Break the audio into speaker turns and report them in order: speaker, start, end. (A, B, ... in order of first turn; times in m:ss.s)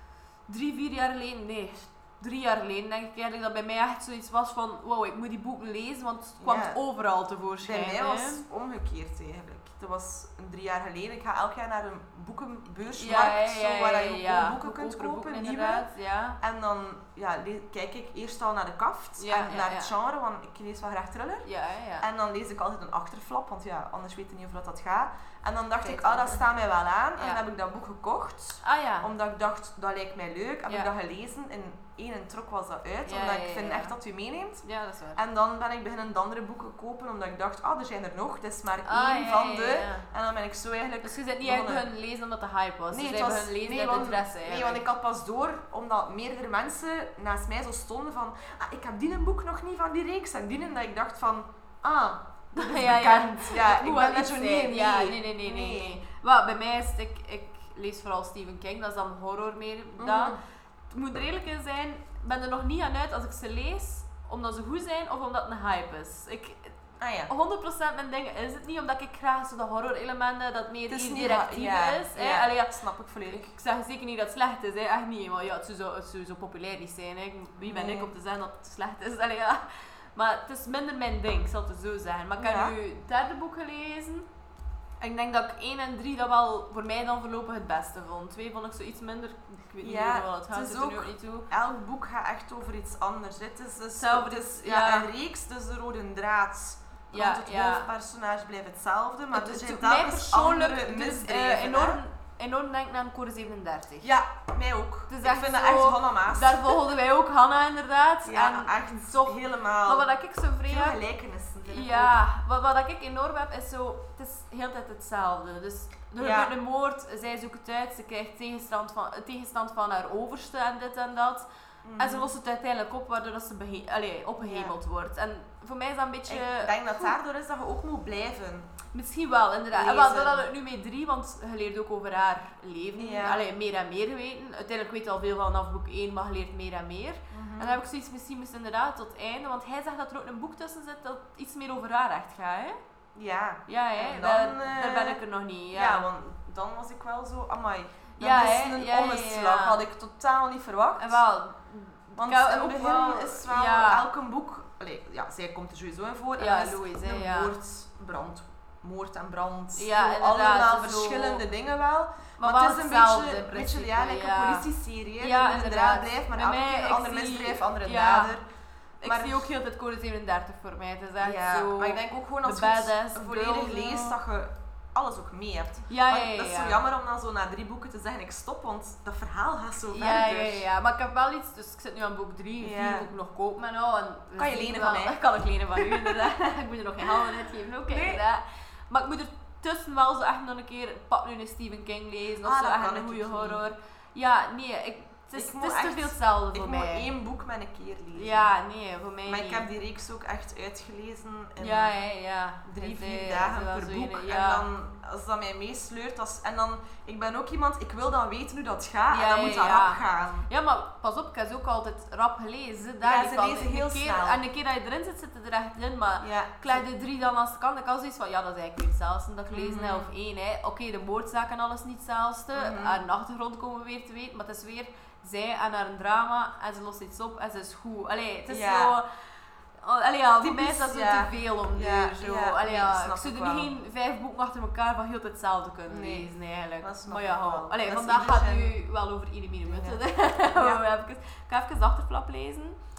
0:00.5-0:08.4 A
0:06.4-0:06.8 B
0:07.6-0:15.9 B
0:13.0-0:16.4 A
0:16.4-0:21.5 B
0:19.2-0:19.9 A
0:21.4-0:22.0 A
0:22.0-0:41.8 B
0:25.8-0:26.4 A
0:27.2-0:27.4 A
0:28.6-0:29.1 A
0:33.0-0:33.9 A
0:34.6-0:35.2 A
0:38.8-0:40.0 A
0:41.0-0:44.8 A
0:42.9-0:56.0 B
0:52.5-1:00.4 A
1:00.0-1:00.4 B
1:00.9-1:06.8 A
1:07.0-1:07.3 B
1:07.3-1:24.3 A
1:10.9-1:13.5 B
1:17.6-1:18.1 B
1:22.4-1:22.7 B
1:25.0-1:31.5 A
1:29.8-1:42.0 B
1:34.0-1:35.1 A
1:37.1-1:37.9 A
1:39.3-1:44.1 A
1:44.0-1:46.7 B
1:45.1-1:51.0 A
1:48.2-1:50.0 B
1:50.6-1:52.2 B
1:51.6-2:01.4 A
1:56.2-1:56.5 B
2:01.8-2:02.3 B
2:02.0-2:07.1 A
2:04.4-2:04.7 B
2:06.3-2:08.7 B
2:08.9-2:22.8 A
2:09.7-2:10.5 B
2:13.0-2:13.4 B
2:17.3-2:17.8 B
2:23.1-2:31.2 B
2:23.7-2:26.0 A
2:28.2-2:29.8 A
2:31.0-2:34.0 A
2:32.2-2:48.4 B
2:36.4-2:37.5 A
2:39.7-2:41.4 A
2:42.4-2:44.7 A
2:45.2-2:48.3 A
2:49.0-2:54.2 A
2:49.0-2:49.5 B
2:51.2-3:00.7 B
2:55.9-2:56.8 A
2:59.9-3:17.1 A
3:02.6-3:03.1 B
3:04.4-3:05.2 B
3:05.7-3:06.1 B
3:07.0-3:08.2 B
3:12.4-3:13.6 B
3:15.3-3:18.5 B
3:18.1-3:19.6 A
3:19.2-3:21.9 B
3:21.6-3:24.7 A
3:22.6-3:30.5 B
3:29.1-3:49.0 A
3:33.0-3:34.4 B
3:36.2-3:36.8 B
3:39.5-3:40.1 B
3:42.5-3:43.0 B
3:48.5-3:48.9 B
3:49.8-4:02.8 A
3:50.4-3:53.7 B
3:55.9-3:58.7 B
3:59.6-4:00.8 B